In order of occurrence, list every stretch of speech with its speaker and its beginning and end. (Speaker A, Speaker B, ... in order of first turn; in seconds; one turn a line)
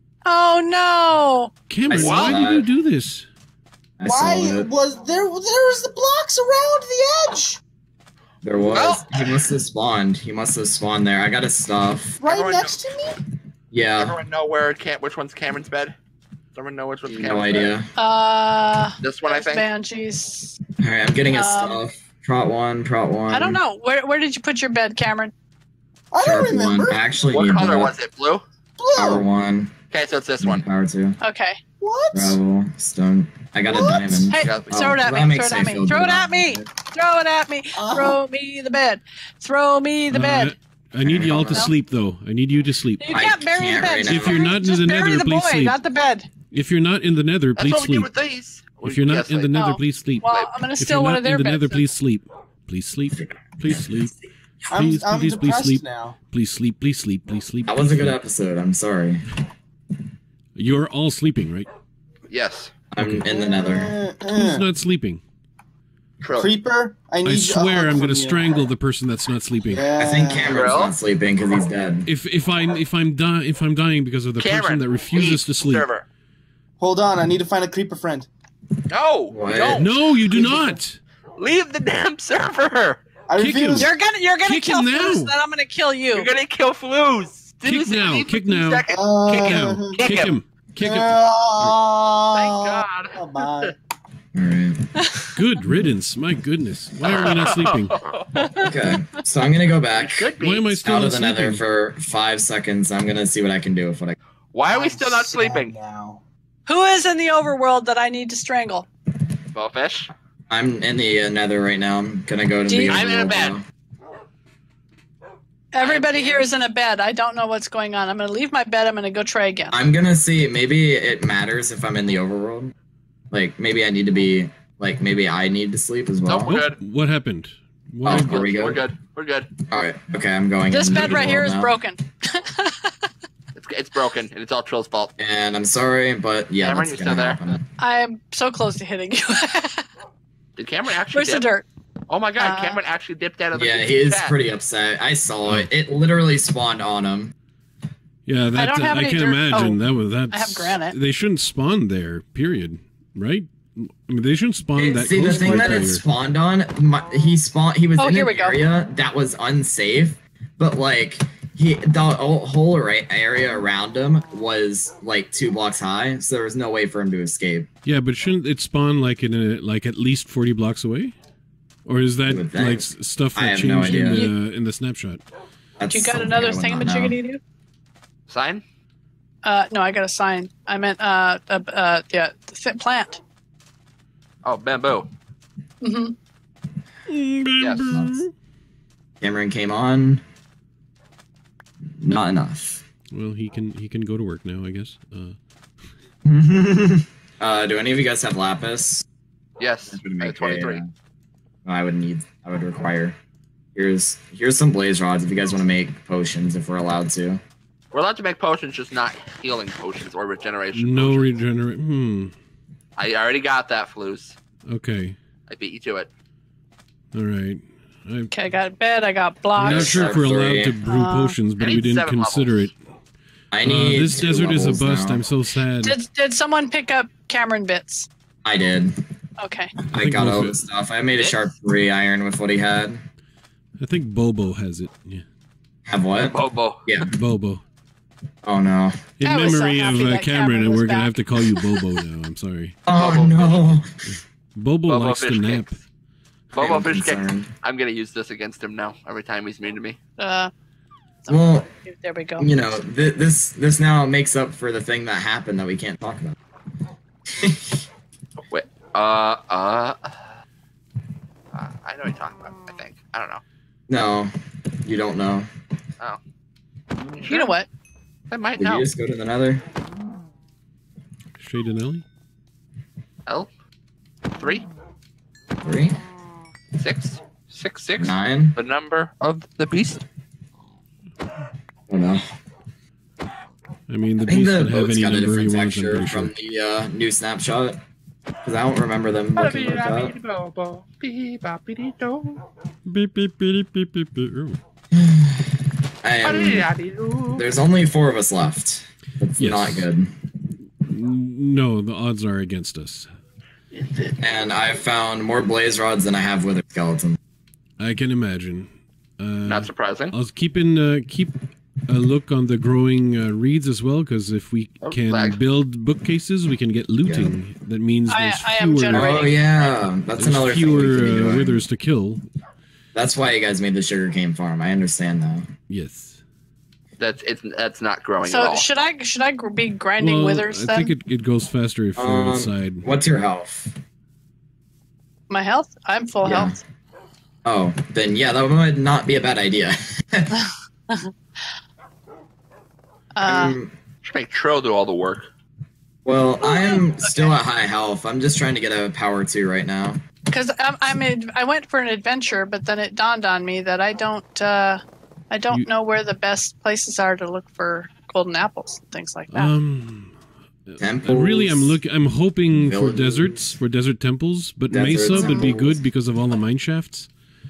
Speaker A: 0.2-1.5
Speaker B: 1.7-3.3
Speaker C: 1.9-2.6
Speaker D: 1.9-2.4
Speaker C: 4.0-4.7
Speaker E: 4.1-7.6
Speaker C: 8.4-12.2
Speaker D: 8.7-9.5
Speaker E: 12.2-13.2
Speaker D: 12.2-12.8
Speaker C: 13.7-14.2
Speaker D: 14.0-15.9
Speaker D: 16.5-17.7
Speaker C: 17.1-17.9
Speaker A: 18.0-20.6
Speaker D: 19.0-19.6
Speaker C: 20.8-23.6
Speaker A: 21.3-21.8
Speaker A: 23.3-25.3
Speaker E: 26.1-27.0
Speaker C: 26.2-27.9
Speaker D: 27.3-28.4
Speaker E: 28.8-29.3
Speaker C: 28.9-29.7
Speaker D: 29.9-30.6
Speaker C: 30.4-31.2
Speaker A: 31.2-31.6
Speaker E: 31.8-32.4
Speaker C: 32.1-36.7
Speaker E: 33.6-34.3
Speaker A: 34.3-40.5
Speaker D: 34.4-34.7
Speaker E: 37.8-38.2
Speaker B: 40.1-43.1
Speaker C: 41.0-41.7
Speaker A: 43.0-46.3
Speaker C: 43.1-44.4
Speaker B: 44.1-45.8
Speaker B: 46.5-48.1
Speaker D: 47.5-49.5
Speaker B: 48.8-54.1
Speaker A: 49.5-51.9
Speaker D: 50.3-50.5
Speaker E: 54.7-56.2
Speaker B: 54.7-58.1
Speaker C: 57.7-59.2
Speaker B: 60.5-61.7
Speaker D: 62.3-62.7
Speaker C: 62.9-63.9
Speaker B: 63.0-63.3
Speaker E: 63.3-64.7
Speaker B: 64.3-65.2
Speaker D: 66.2-66.5
Speaker E: 66.4-68.7
Speaker B: 67.2-69.9
Speaker E: 69.7-70.7
Speaker C: 70.0-72.1
Speaker D: 70.4-71.0
Speaker B: 72.0-75.9
Speaker D: 74.4-76.0
Speaker E: 76.8-78.3
Speaker D: 78.9-79.9
Speaker C: 79.3-79.8
Speaker B: 79.7-81.0
Speaker E: 80.2-80.8
Speaker D: 81.4-83.0
Speaker E: 83.3-83.9
Speaker B: 83.4-83.9
Speaker A: 83.8-86.3
Speaker B: 84.4-85.3
Speaker D: 86.1-90.4
Speaker B: 87.6-91.8
Speaker E: 88.9-90.2
Speaker E: 90.8-93.8
Speaker D: 92.3-93.7
Speaker C: 94.3-94.8
Speaker A: 95.0-95.3
Speaker B: 95.3-98.0
Speaker D: 97.0-98.5
Speaker A: 98.4-99.0
Speaker C: 98.5-100.3
Speaker D: 99.9-100.8
Speaker B: 100.4-101.6
Speaker C: 100.8-104.2
Speaker D: 104.5-105.7
Speaker E: 104.7-106.2
Speaker A: 106.7-108.8
Speaker D: 109.5-110.1
Speaker C: 110.5-113.6
Speaker A: 112.7-113.0
Speaker D: 112.9-113.6
Speaker A: 115.7-119.8
Speaker D: 115.8-116.5
Speaker C: 119.7-122.7
Speaker C: 123.3-126.5
Speaker D: 126.2-126.8
Speaker B: 126.5-128.4
Speaker C: 128.0-128.8
Speaker D: 128.0-129.5
Speaker C: 129.7-131.7
Speaker A: 130.7-133.1
Speaker D: 133.5-135.1
Speaker C: 135.2-137.6
Speaker D: 136.6-137.4
Speaker A: 137.8-139.9
Speaker D: 140.6-141.5
Speaker A: 141.1-141.7
Speaker D: 142.1-144.4
Speaker A: 142.4-142.8
Speaker C: 143.5-147.3
Speaker B: 148.2-156.0
Speaker A: 148.5-150.9
Speaker C: 154.8-167.7
Speaker A: 158.0-158.6
Speaker B: 167.8-171.1
Speaker B: 171.8-175.2
Speaker C: 172.3-174.2
Speaker A: 173.8-174.3
Speaker C: 175.8-177.2
Speaker A: 175.9-177.4
Speaker D: 178.3-178.6
Speaker A: 179.4-183.2
Speaker D: 184.4-185.1
Speaker A: 185.8-186.1
Speaker B: 187.1-188.3
Speaker D: 187.6-187.9
Speaker C: 187.9-188.2
Speaker C: 189.2-190.2
Speaker C: 192.0-192.8
Speaker B: 193.1-195.3
Speaker C: 196.2-199.0
Speaker D: 199.6-200.8
Speaker C: 199.9-200.9
Speaker C: 201.6-203.2
Speaker C: 203.7-207.4
Speaker D: 207.9-211.3
Speaker B: 210.7-212.3
Speaker D: 213.0-214.4
Speaker B: 214.7-215.2
Speaker D: 215.5-216.1
Speaker B: 217.1-218.3
Speaker A: 218.3-220.1
Speaker B: 219.6-222.8
Speaker C: 219.6-220.8
Speaker A: 220.8-221.3
Speaker D: 221.6-222.7
Speaker C: 223.5-225.2
Speaker B: 223.6-226.0
Speaker A: 225.8-228.1
Speaker C: 228.4-228.9
Speaker A: 229.4-229.7
Speaker C: 229.9-233.0
Speaker B: 229.9-230.6
Speaker D: 231.2-231.5
Speaker B: 233.8-235.2
Speaker C: 235.9-237.1
Speaker D: 236.3-236.8
Speaker B: 237.1-237.6
Speaker C: 238.4-238.9
Speaker B: 239.2-242.8
Speaker A: 239.2-241.8
Speaker C: 242.8-243.9
Speaker D: 242.9-243.8
Speaker B: 244.1-245.8
Speaker D: 244.9-245.8
Speaker D: 246.5-250.0
Speaker C: 246.6-247.5
Speaker A: 250.2-250.5
Speaker A: 251.2-252.5
Speaker C: 251.3-251.7
Speaker C: 252.4-256.4
Speaker C: 257.4-257.8
Speaker D: 258.5-260.3
Speaker D: 261.5-263.4
Speaker C: 263.9-265.5
Speaker D: 267.1-267.6
Speaker A: 267.3-267.7
Speaker D: 268.3-268.9
Speaker C: 268.6-269.6
Speaker B: 271.4-272.0
Speaker D: 274.4-274.7
Speaker C: 275.6-276.0
Speaker D: 276.8-280.0
Speaker C: 278.0-278.6
Speaker C: 281.9-282.2
Speaker B: 283.9-286.3
Speaker C: 284.2-287.8
Speaker C: 288.4-290.1
Speaker D: 289.3-292.4
Speaker B: 292.9-294.6
Speaker C: 294.9-296.7
Speaker D: 296.2-297.5
Speaker C: 297.3-300.1
Speaker B: 299.4-299.9
Speaker B: 300.8-303.1
Speaker D: 303.7-304.2
Speaker C: 304.2-307.2
Speaker B: 307.8-319.3
Speaker D: 309.4-310.1
Speaker D: 314.8-315.4
Speaker C: 317.0-317.3
Speaker A: 318.1-319.4
Speaker C: 318.9-321.6
Speaker B: 320.1-322.2
Speaker C: 322.9-325.5
Speaker B: 325.7-326.2
Speaker D: 327.0-328.7
Speaker A: 328.2-330.9
Speaker B: 330.0-332.8
Speaker C: 331.9-333.8
Speaker A: 335.3-336.6
Speaker C: 336.2-336.6
Speaker C: 337.4-340.3
Speaker A: 343.1-343.6
Speaker C: 343.2-343.7
Speaker D: 344.0-345.3
Speaker C: 346.0-350.0
Speaker A: 346.4-347.4
Speaker A: 350.3-359.5
Speaker B: 359.3-360.1
Speaker B: 360.7-367.1
Speaker C: 360.8-361.8
Speaker C: 362.5-363.4
Speaker C: 364.7-365.8
Speaker A: 365.1-365.4